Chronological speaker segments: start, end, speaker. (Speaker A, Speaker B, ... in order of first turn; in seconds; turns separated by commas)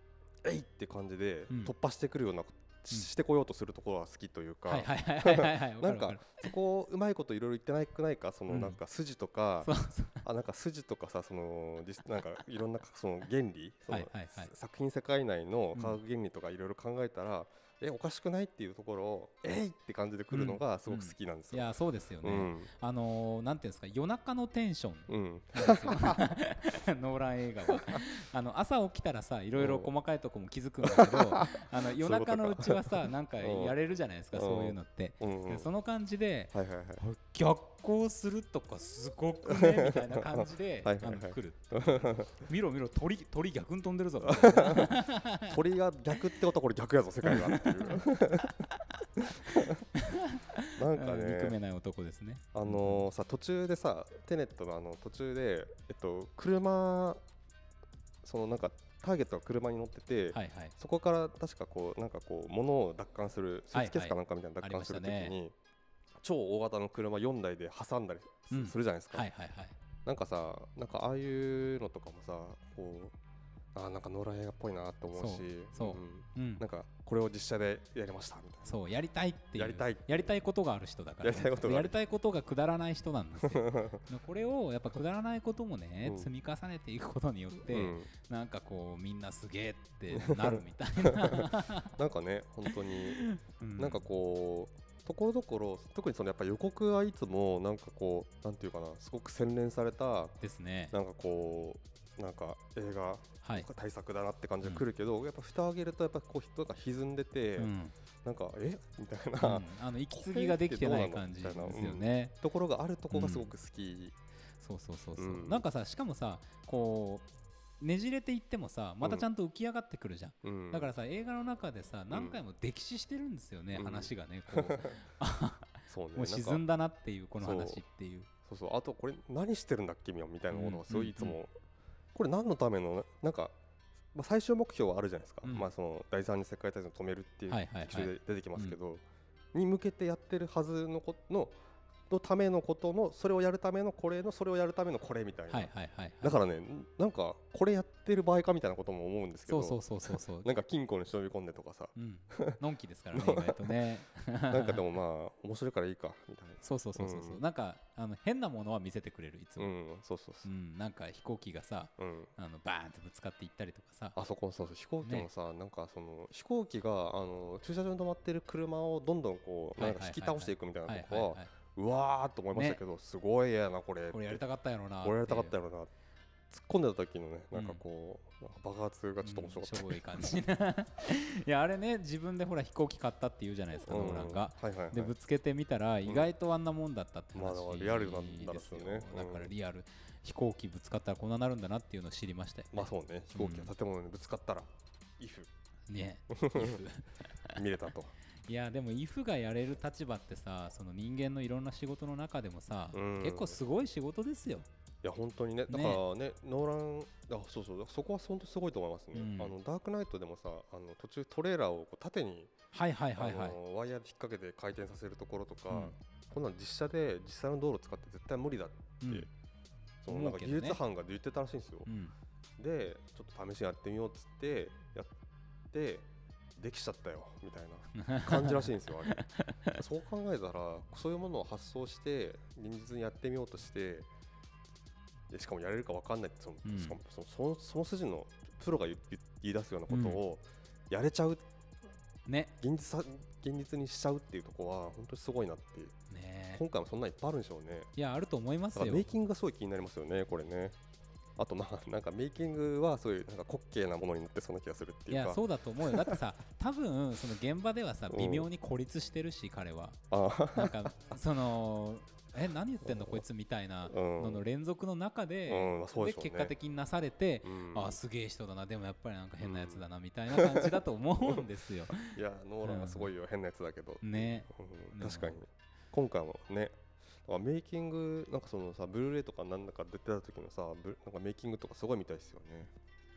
Speaker A: 0.4-21.7, Speaker B: 4.7-6.5, Speaker B: 8.5-8.8, Speaker B: 9.6-10.2, Speaker B: 13.9-14.5, Speaker B: 20.3-45.6, Speaker A: 22.2-22.7, Speaker A: 25.1-26.2, Speaker A: 29.6-29.9, Speaker A: 30.8-32.8, Speaker A: 33.4-33.8, Speaker A: 34.3-35.7, Speaker A: 36.5-37.0, Speaker A: 39.5-42.5, Speaker A: 44.2-49.8, Speaker B: 47.2-53.1, Speaker A: 50.7-51.6, Speaker A: 52.5-57.2, Speaker A: 58.2-65.5, Speaker B: 60.3-60.8, Speaker B: 63.7-65.4, Speaker A: 66.2-69.3, Speaker B: 68.5-69.8, Speaker A: 70.0-73.2, Speaker A: 73.7-78.8, Speaker B: 75.1-76.7, Speaker B: 78.7-92.0, Speaker A: 79.5-80.3, Speaker A: 81.2-82.0, Speaker A: 83.4-84.0, Speaker A: 86.0-86.3, Speaker A: 87.7-88.1, Speaker A: 90.1-100.4, Speaker B: 92.7-94.1, Speaker B: 100.4-101.0, Speaker A: 100.9-107.7, Speaker B: 103.4-103.7, Speaker B: 107.6-107.9, Speaker A: 108.2-114.2, Speaker B: 109.4-112.3, Speaker B: 113.1-113.5, Speaker B: 114.6-117.3, Speaker A: 115.2-115.7, Speaker B: 117.8-128.3, Speaker A: 120.4-120.9, Speaker A: 122.1-122.4, Speaker A: 123.7-125.0, Speaker A: 125.9-126.6, Speaker A: 127.4-127.8, Speaker A: 128.5-131.5, Speaker B: 130.5-131.4, Speaker A: 132.1-133.6, Speaker A: 134.1-139.0, Speaker B: 137.5-138.8, Speaker A: 139.5-141.6, Speaker A: 142.1-145.7, Speaker B: 145.5-146.4, Speaker A: 146.2-152.6, Speaker B: 149.5-150.5, Speaker B: 152.0-154.8, Speaker A: 153.1-153.8, Speaker A: 154.5-157.4, Speaker B: 156.6-159.7, Speaker A: 159.6-160.5, Speaker B: 160.4-164.2, Speaker A: 162.0-162.3, Speaker A: 164.2-174.4, Speaker B: 169.8-171.5, Speaker B: 172.5-172.8, Speaker B: 174.1-175.6, Speaker A: 175.0-175.9, Speaker A: 176.5-180.0, Speaker B: 177.5-177.8, Speaker B: 179.2-193.7, Speaker A: 183.9-185.1, Speaker A: 187.3-189.5, Speaker A: 192.7-195.5, Speaker B: 195.9-197.6, Speaker A: 196.3-196.8, Speaker A: 197.5-198.2, Speaker B: 198.4-204.7, Speaker A: 202.9-203.6, Speaker A: 205.0-212.5, Speaker B: 205.7-206.0, Speaker B: 209.1-209.6, Speaker B: 212.7-213.6, Speaker A: 213.2-219.3, Speaker B: 215.7-216.0, Speaker B: 219.0-219.3, Speaker A: 220.0-221.9, Speaker B: 220.1-220.8, Speaker B: 221.9-222.2, Speaker A: 222.6-225.1, Speaker A: 225.7-234.1, Speaker B: 228.0-229.8, Speaker A: 235.3-241.4, Speaker B: 236.7-237.0, Speaker B: 239.9-240.2, Speaker B: 242.3-242.6, Speaker A: 242.6-245.9, Speaker B: 246.1-246.6, Speaker A: 246.5-247.9, Speaker B: 248.0-249.1, Speaker A: 248.7-250.8, Speaker A: 251.4-256.2, Speaker B: 255.1-260.0, Speaker A: 258.1-258.5, Speaker A: 260.1-260.9, Speaker B: 260.5-273.1, Speaker A: 262.8-263.2, Speaker A: 263.9-264.4, Speaker A: 265.5-266.5, Speaker A: 267.4-268.0, Speaker A: 269.4-270.8, Speaker A: 271.3-282.7, Speaker B: 274.0-275.4